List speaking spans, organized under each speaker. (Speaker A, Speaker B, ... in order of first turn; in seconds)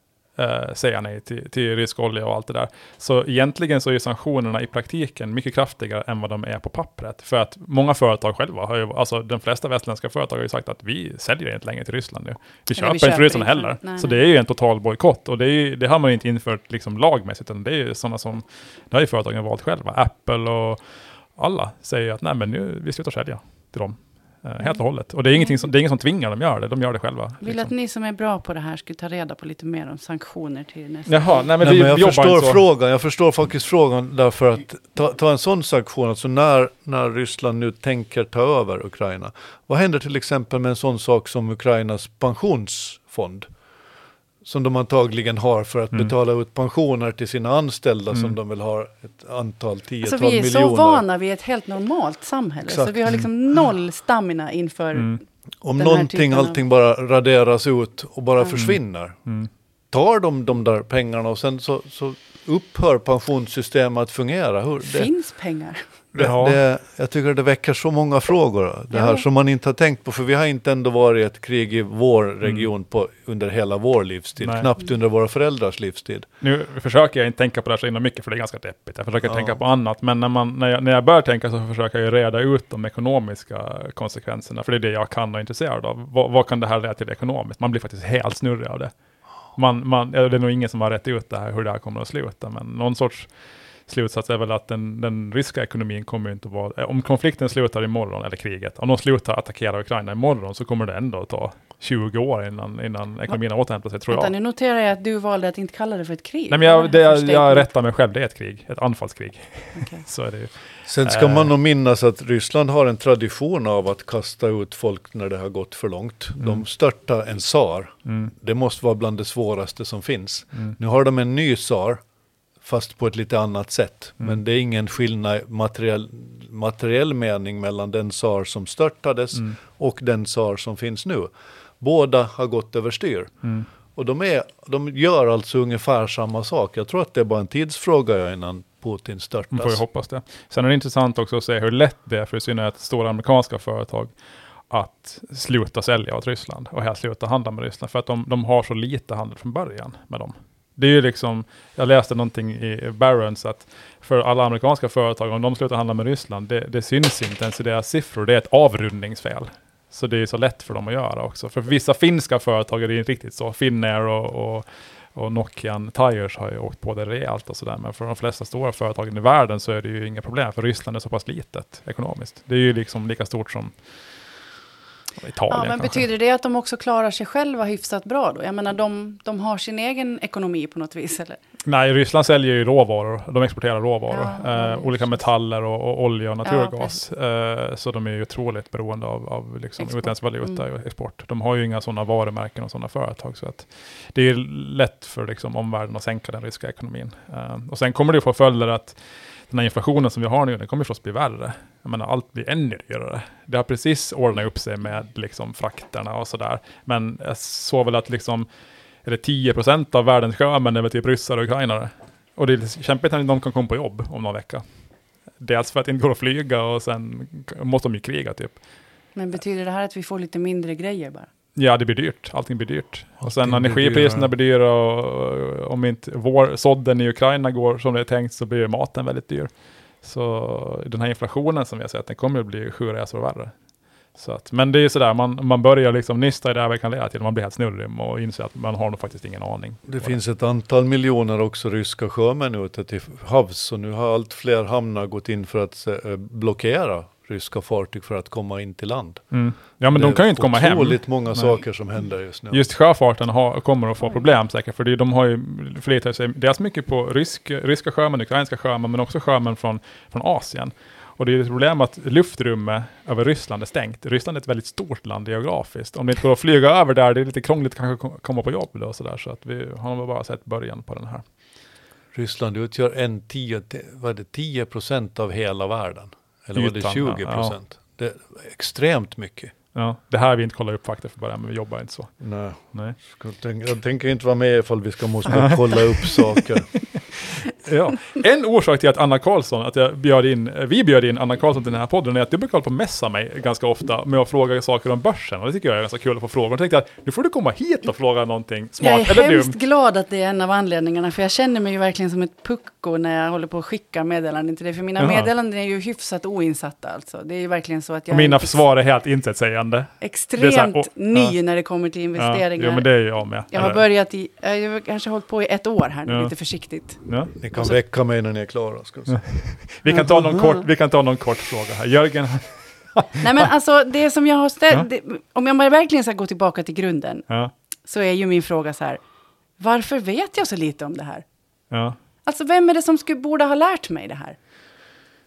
Speaker A: 0.4-20.8, 21.4-27.7, 31.1-32.6, 58.6-59.5, 66.1-66.6, 72.4-72.7, 74.4-74.7, 76.4-88.9, 89.6-93.3, 93.9-104.3, 106.5-111.5, 116.4-116.6, 118.1-118.3, 139.5-144.1, 144.7-173.7, 175.2-176.1, 181.7-199.0, 199.5-208.5, 209.1-214.6, 215.4-218.6, 221.6-229.5, 230.0-233.5, 234.2-240.2, 249.3-251.6, 252.5-271.2, 276.6-277.6, 279.7-282.1, 285.3-299.6, 305.0-305.3, 308.1-311.4, 312.2-313.8, 316.1-316.3, 317.1-317.3, 319.1-323.5, 331.7-332.0
Speaker B: 12.8-14.2, 27.4-31.5, 50.0-55.2, 55.8-56.6, 64.8-65.8, 68.9-69.2, 104.1-107.7, 109.8-110.0, 175.5-181.4, 184.1-185.2, 186.4-187.0, 189.8-190.6, 219.2-221.3, 298.8-308.6, 310.0-317.0, 323.2-327.3, 327.9-329.0, 329.6-331.2, 332.2-334.4
Speaker C: 31.6-43.5, 44.5-51.0, 52.7-53.0, 55.6-59.2, 59.9-65.1, 66.2-76.3, 79.3-79.5, 110.9-122.0, 122.6-133.3, 134.0-139.8, 223.2-224.3, 239.9-249.2, 249.9-252.7, 272.1-279.5, 282.2-286.7, 317.4-319.2